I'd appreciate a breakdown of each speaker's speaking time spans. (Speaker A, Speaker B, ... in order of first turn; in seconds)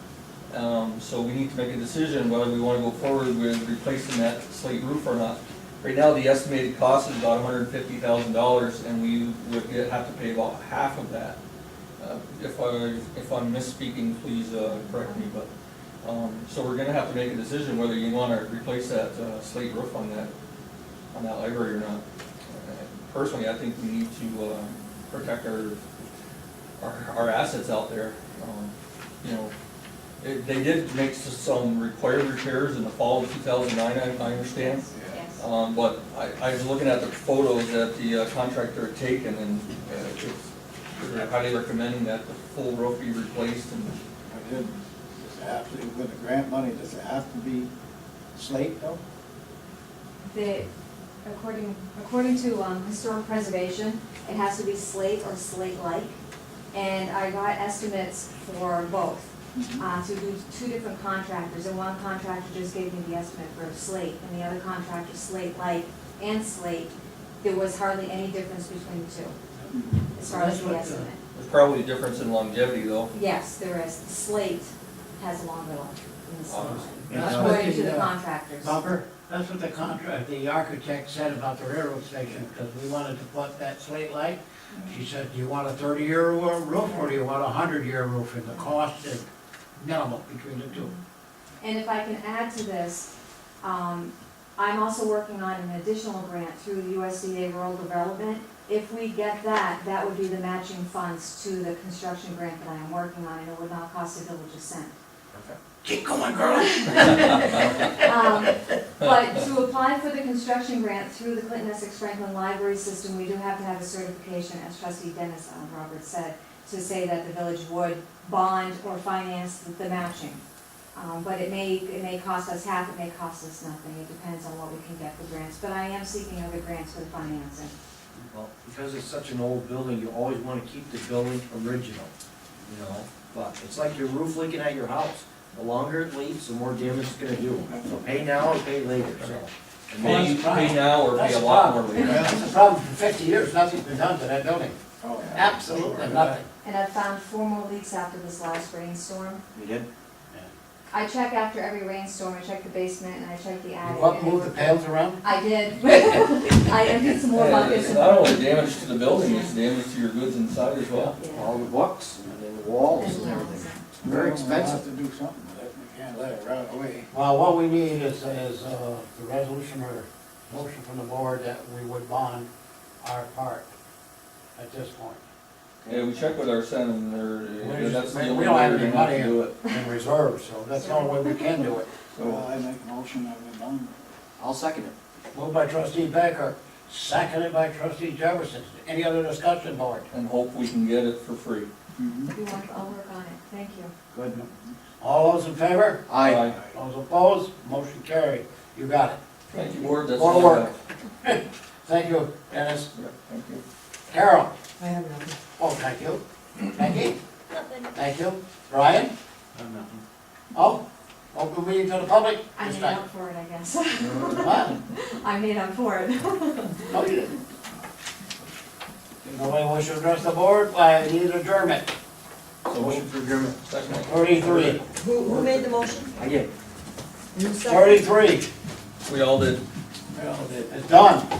Speaker A: 0.5-11.4, 12.0-15.5, 16.0-20.3, 21.1-26.0, 26.8-29.5, 30.2-44.0, 71.3-73.1, 76.5-77.1, 140.0-142.3, 157.2-161.1, 175.9-179.6, 182.1-182.4, 190.1-191.7, 196.2-196.6, 199.5-200.7, 202.9-203.6, 222.7-225.8, 229.1-229.6
Speaker B: 34.4-35.4, 50.3-50.7, 51.2-56.2, 56.7-69.3, 70.1-71.2, 73.1-78.8, 84.7-85.0, 90.7-91.0, 91.6-93.1, 93.6-104.9, 106.5-120.4, 120.9-127.7, 142.0-142.3, 146.6-149.4, 150.9-159.5, 161.1-161.6, 163.0-163.8, 180.8-181.7, 192.3-193.9, 212.5-217.3
Speaker C: 34.9-35.2, 44.3-47.7, 48.3-49.0, 69.7-70.0, 77.1-77.7, 137.6-138.3, 145.0-146.4, 164.0-167.1, 182.2-184.0, 192.0-192.3, 196.4-196.7, 230.1-230.7
Speaker D: 70.2-71.1, 77.1-89.2, 89.8-90.9, 105.8-108.0, 140.0-144.8, 145.3-146.4, 153.8-155.2, 167.1-172.5, 173.0-173.7, 174.6-175.2, 177.6-181.9, 185.3-190.1, 195.0-196.1, 196.7-199.2, 199.8-202.9, 204.1-204.5, 205.6-207.2, 207.9-209.1, 210.5-213.0, 214.3-214.8, 216.9-217.3, 219.2-221.9, 224.0-224.8, 227.6-228.5, 230.7-231.3
Speaker E: 77.1-77.7, 105.3-105.6, 128.3-132.1, 132.6-140.4, 149.5-149.9, 161.3-164.8, 175.8-176.1, 184.4-184.9, 194.1-194.5, 196.1-196.4, 209.6-209.9, 222.7-223.5, 226.2-226.5
Speaker F: 204.8-205.3, 225.0-226.1, 227.3-228.0